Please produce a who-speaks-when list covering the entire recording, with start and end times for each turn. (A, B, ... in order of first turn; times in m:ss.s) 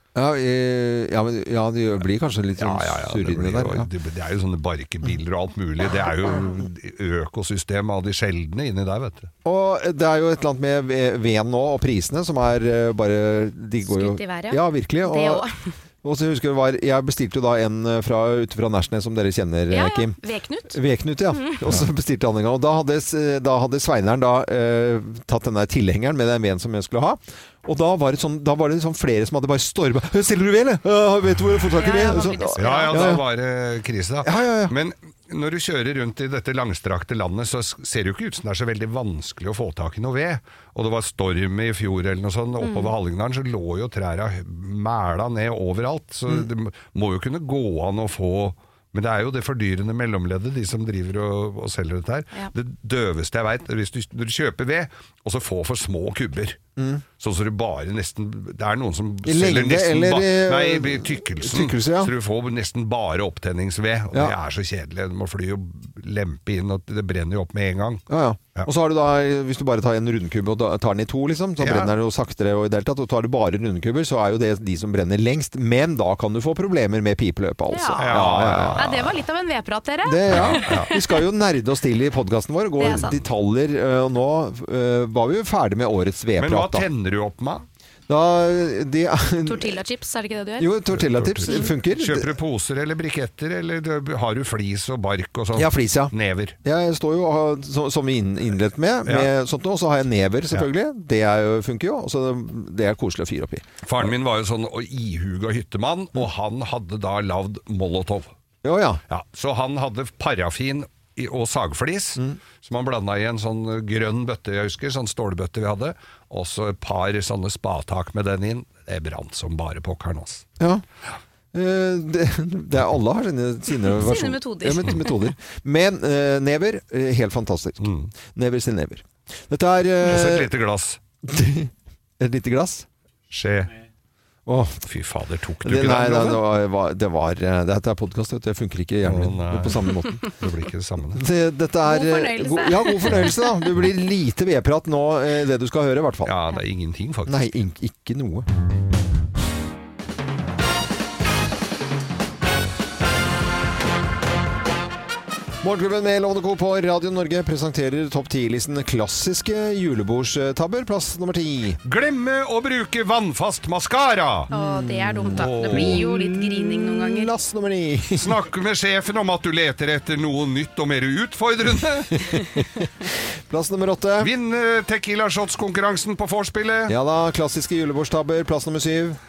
0:00.1-0:03.9 A
0:02.6-0:09.3 B
0:09.4-0:15.4 A
0:13.8-0:15.6 C
0:16.0-0:20.2 A
0:19.7-0:20.8 C
0:20.7-0:33.2 A
0:21.3-0:21.6 C
0:31.8-0:33.1 C
0:32.6-0:56.6 B
0:34.2-0:34.7 A
0:42.6-0:42.9 C
0:56.8-0:57.0 A
0:57.2-1:08.7 B
0:59.2-1:02.1 A
1:08.1-1:18.8 A
1:11.6-1:11.9 B
1:17.7-1:18.2 C
1:18.0-1:19.1 B
1:18.8-1:21.2 C
1:20.0-1:26.9 A
1:20.3-1:20.9 B
1:22.8-1:23.2 C
1:26.4-1:27.6 B
1:28.1-1:29.8 A
1:29.4-1:30.7 C
1:30.6-1:32.3 A
1:30.9-1:36.5 B
1:35.6-1:44.1 A
1:43.8-1:48.3 B
1:48.6-1:49.0 A
1:49.1-2:00.5 B
2:00.6-2:00.8 A
2:01.5-2:10.5 A
2:03.8-2:05.2 C
2:07.8-2:08.1 B
2:10.0-2:11.0 B
2:11.2-2:12.8 A
2:13.3-2:13.7 B
2:14.4-2:14.8 A
2:14.8-2:16.4 B
2:15.6-2:20.2 A
2:19.0-2:21.2 B
2:21.2-2:26.4 A
2:21.8-2:23.4 C
2:26.2-2:27.4 B
2:27.3-2:28.4 A
2:35.6-2:41.8 A
2:41.8-2:44.5 B
2:44.5-2:47.3 C
2:44.5-2:48.3 A
2:45.3-2:46.0 B
2:48.1-2:52.3 B
2:52.2-2:52.8 A
2:53.5-2:54.3 A
2:54.2-2:56.9 B
2:56.9-2:59.2 A